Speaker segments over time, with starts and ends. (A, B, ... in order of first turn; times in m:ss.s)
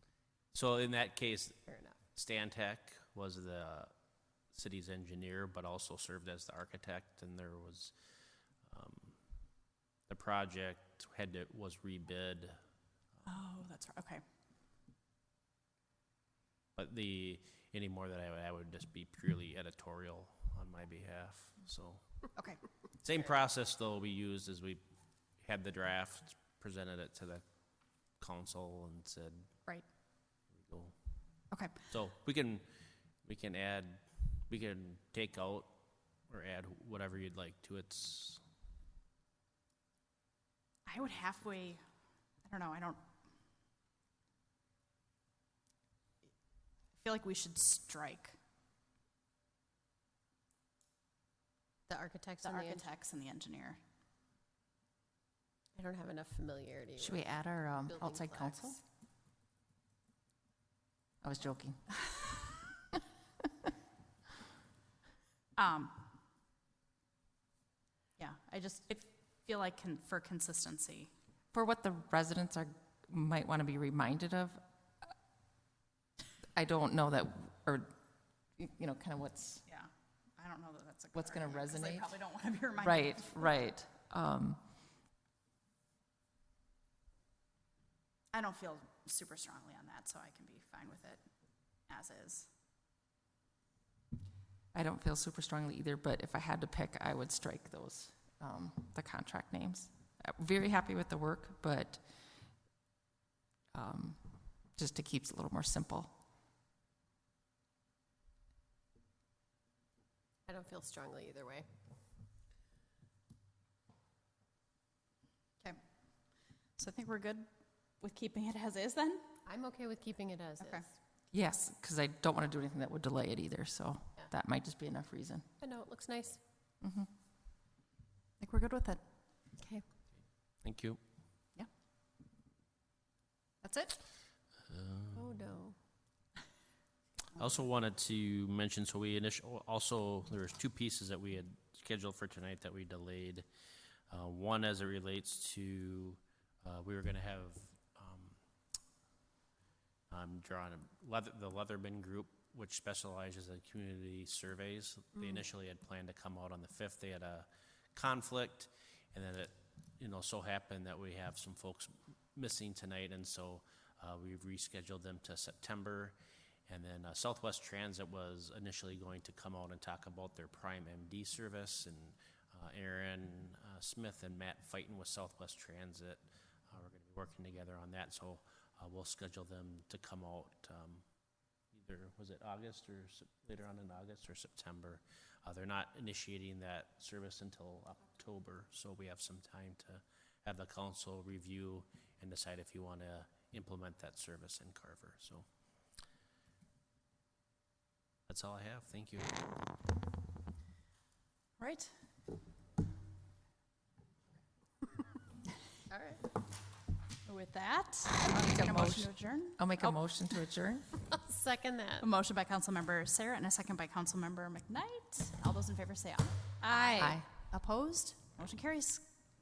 0:00.5-0:03.9 A
0:01.7-0:02.0 B
0:04.5-0:07.9 A
0:08.6-0:09.2 A
0:10.1-0:12.6 A
0:13.3-0:14.2 C
0:16.8-0:22.0 A
0:23.0-0:24.8 A
0:25.4-0:27.4 A
0:28.2-0:29.5 A
0:30.5-0:31.0 A
0:31.5-0:31.9 C
0:31.9-0:32.6 A
0:33.2-0:35.8 A
0:36.3-0:38.4 A
0:40.9-0:41.8 C
0:42.4-0:43.0 C
0:47.0-0:48.4 C
0:51.9-0:52.9 B
0:52.4-0:53.8 C
0:55.8-0:58.8 B
0:57.0-0:58.8 D
1:01.2-1:02.0 D
1:05.6-1:06.1 C
1:08.2-1:11.1 C
1:11.5-1:14.6 D
1:16.6-1:17.9 D
1:18.6-1:19.6 D
1:19.7-1:23.6 C
1:21.2-1:22.1 D
1:22.8-1:24.6 D
1:28.3-1:31.2 C
1:31.9-1:32.5 C
1:34.7-1:42.0 D
1:43.7-1:46.1 D
1:50.5-1:51.7 B
1:56.8-1:57.5 C
1:58.0-1:59.3 C
1:59.4-2:01.0 B
2:00.6-2:00.9 C
2:01.3-2:05.5 D
2:05.6-2:06.4 B
2:06.8-2:07.1 D
2:08.4-2:09.0 C
2:10.6-2:11.0 A
2:13.6-2:14.0 C
2:14.7-2:15.4 A
2:15.1-2:15.8 B
2:17.4-2:23.5 A
2:24.1-2:28.4 A
2:30.1-2:46.2 A
2:46.7-3:01.0 A
3:01.7-3:15.5 A
3:18.3-3:19.5 A
3:21.6-3:21.9 C
3:25.9-3:26.3 B
3:27.2-3:30.0 C
3:28.2-3:30.9 D
3:31.0-3:32.1 B
3:32.0-3:39.1 C
3:36.7-3:37.2 B
3:37.0-3:37.3 D